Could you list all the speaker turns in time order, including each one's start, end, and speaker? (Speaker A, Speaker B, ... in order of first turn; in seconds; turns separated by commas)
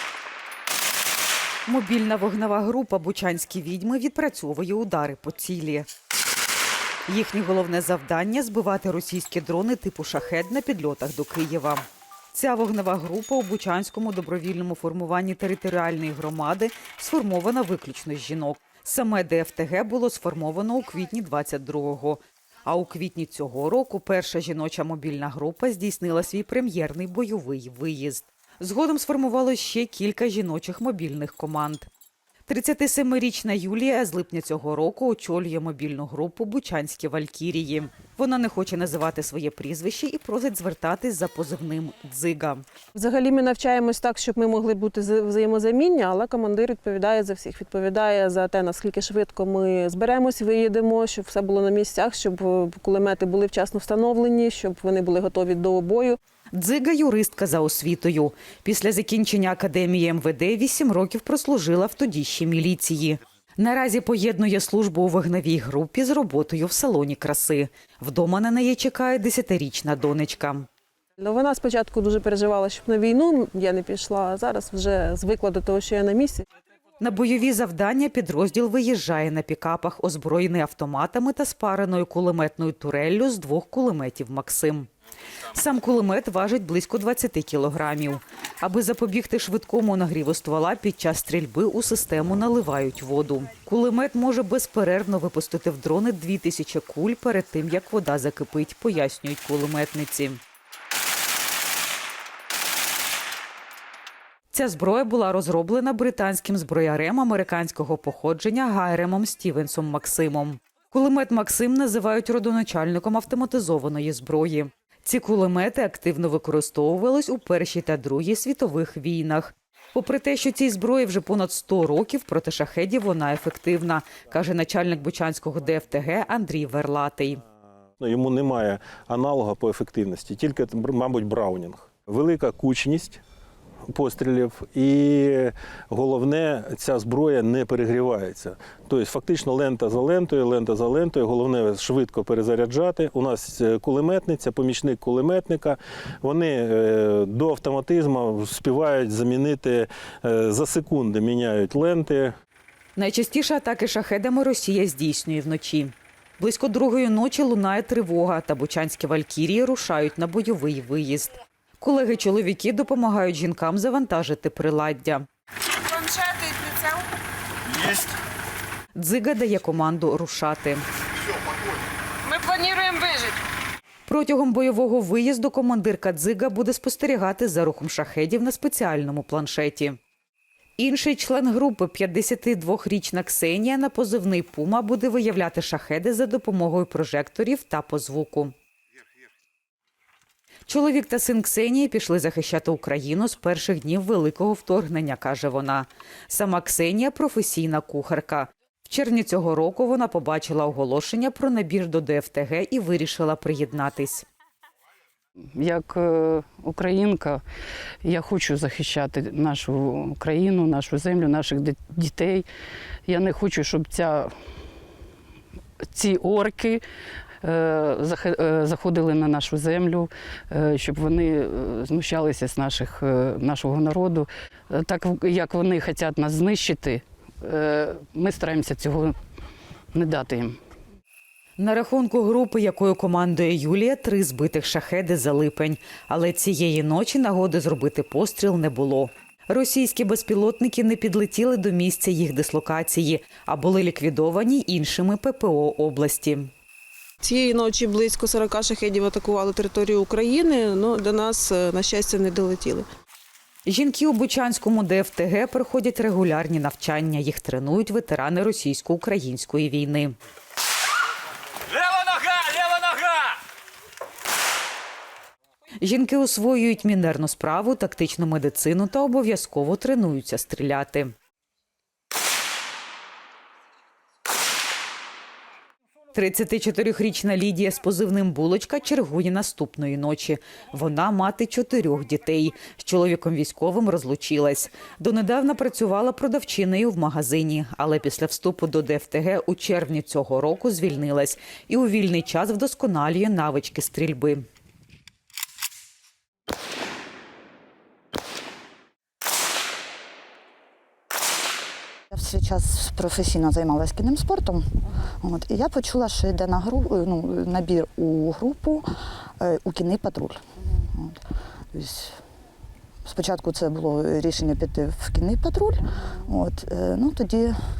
Speaker A: 1.7-5.9, Speaker A: 7.1-31.9, Speaker A: 32.5-42.7, Speaker B: 43.0-56.2, Speaker A: 56.5-70.7, Speaker B: 71.2-76.4, Speaker A: 77.0-84.9, Speaker A: 85.5-100.4, Speaker A: 104.5-127.4, Speaker C: 128.0-133.2, Speaker C: 133.9-152.3, Speaker A: 153.0-165.3, Speaker D: 165.8-167.1, Speaker A: 168.9-170.8, Speaker D: 172.2-173.4, Speaker A: 174.1-180.0, Speaker A: 180.8-188.6, Speaker A: 190.7-204.3, Speaker E: 205.6-207.4, Speaker E: 208.0-212.5, Speaker E: 213.1-214.3, Speaker E: 215.9-216.8, Speaker E: 217.4-229.2, Speaker E: 229.9-230.6, Speaker A: 231.6-246.5, Speaker B: 247.2-252.9, Speaker A: 253.7-260.1, Speaker A: 262.2-262.7, Speaker A: 265.8-271.1, Speaker A: 276.1-294.4, Speaker F: 302.1-308.9, Speaker F: 309.4-311.2, Speaker F: 311.7-312.2, Speaker F: 313.1-317.6